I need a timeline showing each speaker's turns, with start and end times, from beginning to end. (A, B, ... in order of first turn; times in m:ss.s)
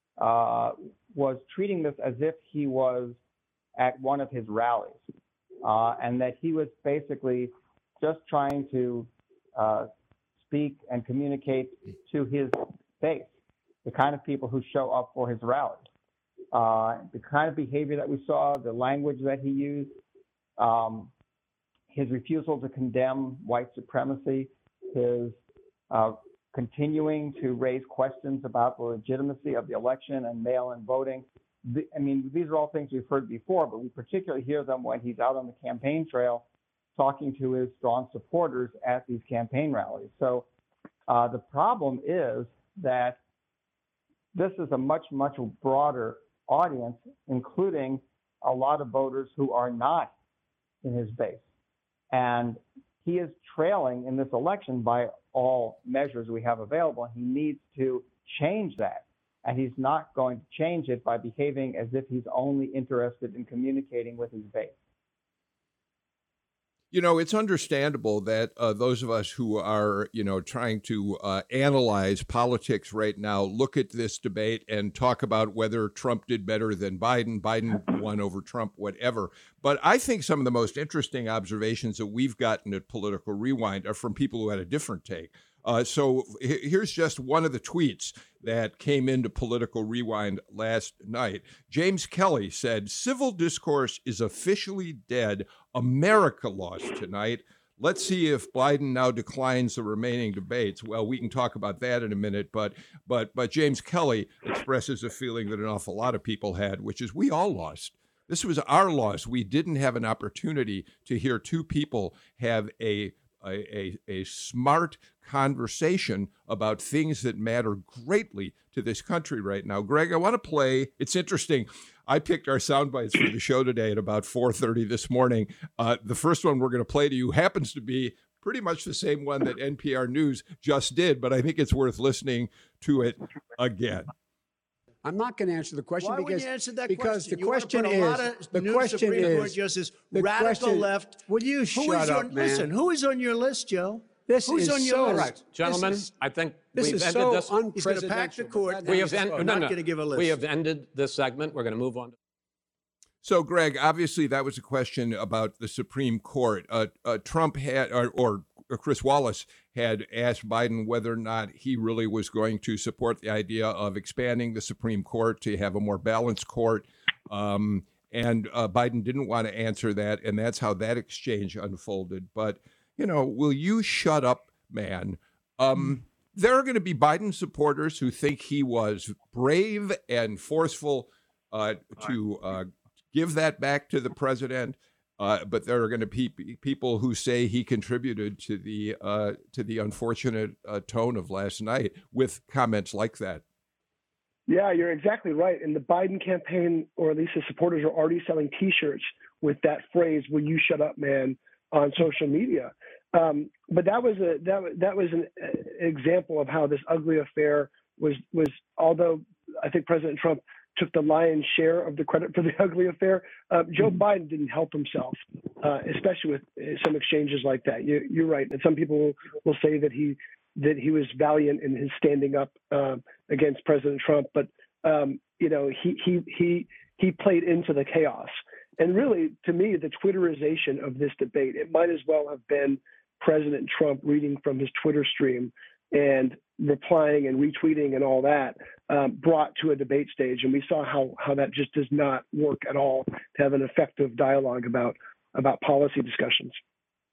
0:00.2-0:03.2 A
0:03.8-0:05.0 A
0:05.6-0:13.3 A
0:13.8-0:15.8 A
0:16.5-0:20.0 A
0:20.6-0:21.1 A
0:21.9-0:25.4 A
0:25.9-0:36.4 A
0:37.0-0:40.4 A
0:41.1-0:43.2 A
0:44.3-0:50.1 A
0:50.8-0:51.4 A
0:52.1-1:04.8 A
1:06.9-2:14.1 B
2:15.0-2:20.9 C
2:16.0-2:25.5 D
2:21.7-2:22.7 C
2:24.2-2:26.1 C
2:25.0-2:27.7 E
2:26.7-2:29.6 C
2:27.6-2:30.4 D
2:28.8-2:32.1 E
2:33.2-3:13.4 B
3:14.5-4:06.6 F